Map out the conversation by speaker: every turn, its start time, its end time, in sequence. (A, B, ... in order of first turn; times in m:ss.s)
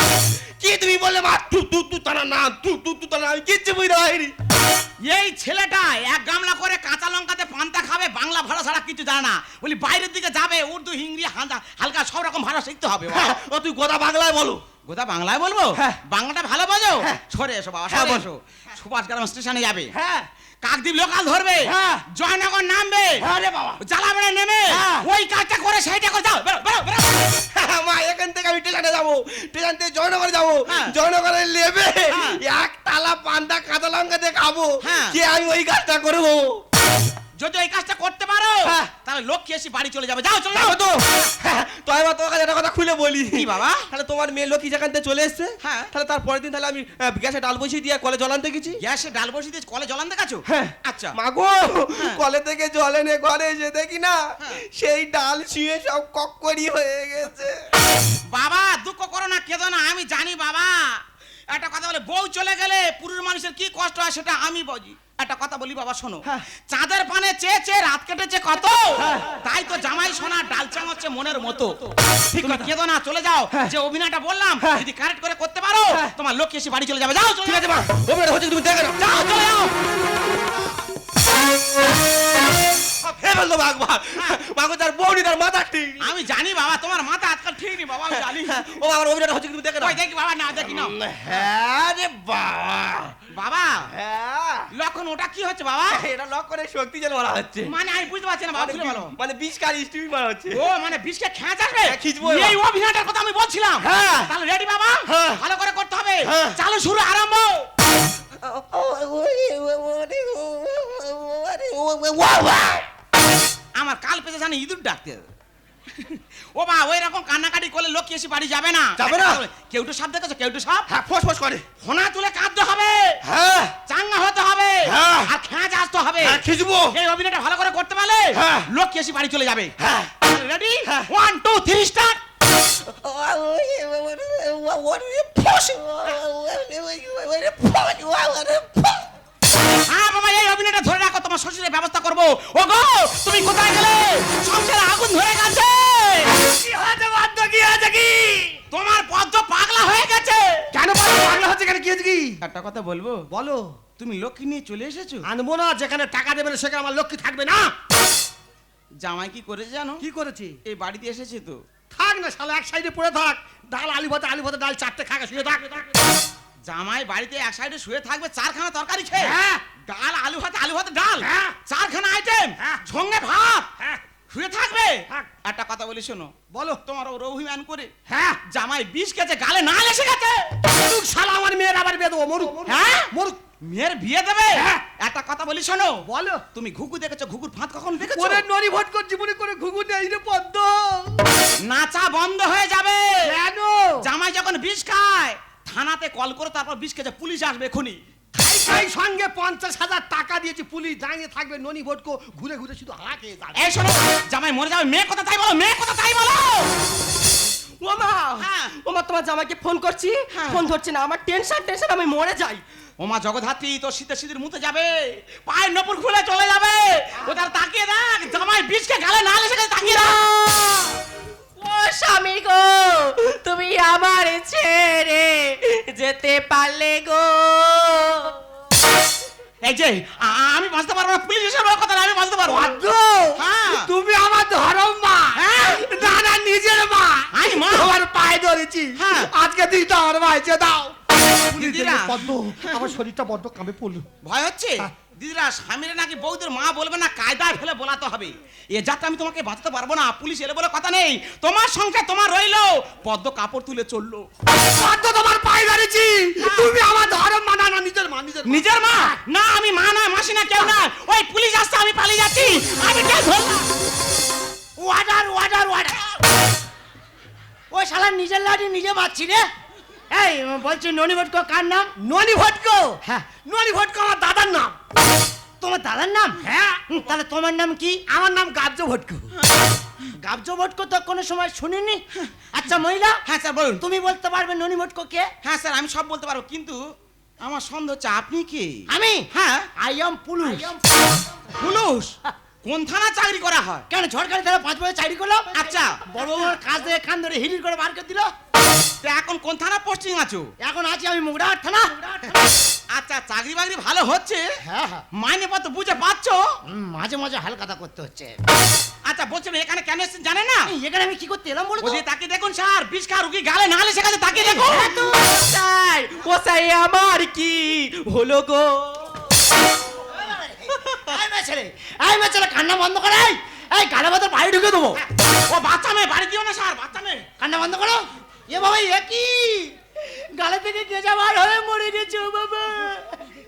0:00.6-0:04.3 A
0:05.1-0:13.4 B
0:13.1-0:14.6 A
0:14.9-0:19.9 B
0:17.9-0:18.3 A
0:19.9-0:20.3 A
0:20.6-0:23.3 B
0:21.7-0:22.0 A
0:23.3-0:23.8 A
0:23.8-0:27.4 B
0:24.7-0:25.1 A
0:27.5-0:36.6 A
0:30.7-0:30.9 B
0:32.1-0:32.4 B
0:34.8-0:35.2 B
0:37.4-0:40.8 B
0:40.5-0:48.8 A
0:43.3-0:43.9 B
0:45.6-0:45.9 B
0:48.8-0:51.2 B
0:50.5-0:57.6 A
0:58.3-1:11.8 B
1:09.0-1:09.4 A
1:12.3-1:12.7 A
1:12.3-1:17.7 B
1:17.4-1:19.1 A
1:19.0-1:19.7 B
1:23.0-1:26.1 A
1:26.0-1:28.7 B
1:28.1-1:30.0 A
1:29.8-1:31.0 B
1:30.7-1:33.2 A
1:33.3-1:33.9 B
1:33.9-1:34.7 A
1:34.7-1:36.0 B
1:35.9-1:37.7 A
1:37.7-1:39.1 B
1:38.6-1:40.6 A
1:40.5-1:47.6 B
1:41.9-1:42.6 A
1:43.8-1:44.3 A
1:45.1-1:45.4 A
1:46.2-1:46.6 A
1:48.4-1:52.9 A
1:53.8-1:55.2 B
1:55.9-2:00.9 B
1:59.0-1:59.4 A
2:00.9-2:01.6 A
2:01.8-2:03.2 B
2:03.2-2:03.7 A
2:03.9-2:06.4 B
2:04.8-2:05.3 A
2:06.2-2:06.9 A
2:06.9-2:12.2 B
2:08.4-2:08.7 A
2:09.8-2:10.1 A
2:12.6-2:19.0 A
2:19.9-2:26.4 B
2:26.4-2:28.6 C
2:28.7-2:30.6 B
2:30.7-2:32.4 C
2:32.4-2:33.2 B
2:33.3-2:33.6 C
2:34.0-2:35.3 B
2:35.2-2:37.7 C
2:39.0-2:40.0 B
2:40.0-2:40.6 C
2:40.7-2:41.6 B
2:41.9-2:46.1 C
2:46.7-2:49.4 B
2:49.2-2:49.6 C
2:49.9-2:53.7 B
2:51.2-2:51.6 C
2:54.3-2:56.3 B
2:56.5-2:56.8 C
2:56.8-2:57.9 B
2:58.1-2:58.4 C
2:58.5-3:00.5 B
3:00.7-3:03.4 C
3:02.7-3:03.1 B
3:03.6-3:06.0 B
3:04.6-3:04.8 C
3:06.1-3:06.4 C
3:06.5-3:08.4 B
3:08.0-3:11.3 C
3:11.6-3:13.4 B
3:13.2-3:14.1 C
3:14.0-3:18.0 B
3:18.4-3:23.7 C
3:23.6-3:26.7 B
3:27.8-3:32.6 D
3:28.4-3:28.7 B
3:30.3-3:30.6 B
3:33.0-3:40.9 B
3:39.9-3:40.7 D
3:41.6-3:48.4 D
3:49.6-3:52.8 B
3:52.4-4:01.0 C
3:53.4-3:53.9 B
3:55.4-3:56.2 B
3:57.3-3:57.9 B
3:59.0-3:59.3 B
4:01.5-4:04.1 C
4:01.5-4:02.9 B
4:04.2-4:14.3 B
4:14.6-4:18.6 C
4:16.4-4:16.7 B
4:18.5-4:23.7 B
4:24.8-4:26.0 E
4:27.7-4:29.5 E
4:30.1-4:31.9 E
4:32.0-4:34.8 C
4:35.6-4:38.0 E
4:36.4-4:36.9 C
4:38.1-4:39.3 C
4:40.2-4:42.0 E
4:42.5-4:43.2 E
4:43.3-4:43.8 B
4:43.8-4:45.3 E
4:45.4-4:46.8 B
4:47.4-4:49.7 B
4:48.9-4:49.3 E
4:49.8-4:50.8 E
4:51.6-4:53.9 B
4:53.9-4:58.3 E
4:55.5-4:56.0 B
4:59.0-5:00.5 B
5:00.6-5:02.4 E
5:02.9-5:04.4 B
5:04.6-5:05.0 E
5:05.1-5:06.4 B
5:06.7-5:08.3 E
5:09.1-5:10.7 B
5:10.7-5:12.0 E
5:11.8-5:14.9 B
5:14.5-5:15.2 E
5:14.6-5:19.2 D
5:20.0-5:25.0 E
5:25.5-5:27.2 B
5:27.4-5:33.2 E